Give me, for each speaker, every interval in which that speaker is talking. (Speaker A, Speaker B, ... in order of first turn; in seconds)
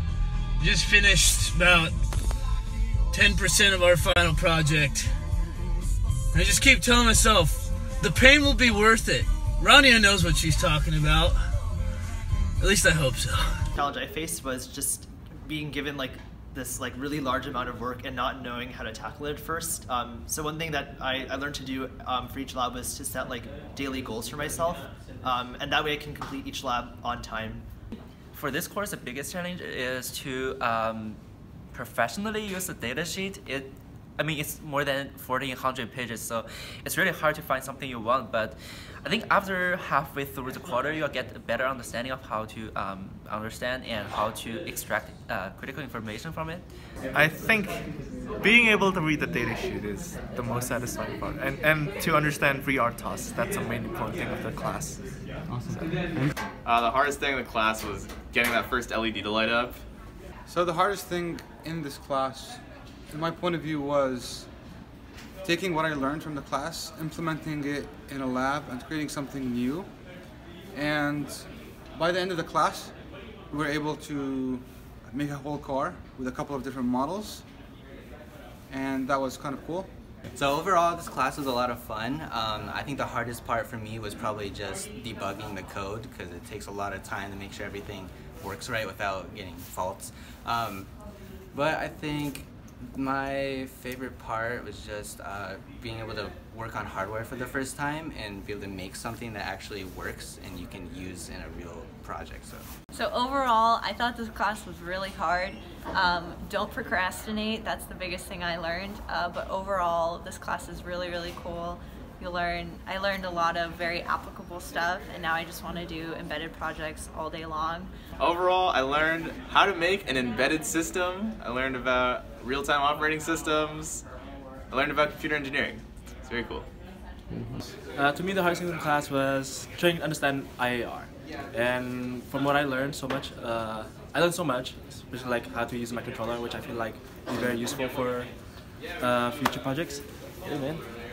Speaker A: 0.6-1.9, 3.1-5.1, 6.3-11.4, 12.6-13.6
Speaker B: 13.8-27.6
Speaker C: 28.3-31.2, 31.7-46.6
Speaker D: 47.1-55.2
Speaker E: 56.6-59.8, 118.2-124.0, 124.7-126.7
Speaker F: 60.5-64.5, 65.4-70.0, 70.7-77.5, 78.7-79.9
Speaker G: 80.3-90.9, 91.5-102.7
Speaker H: 102.9-117.9
Speaker I: 127.9-140.8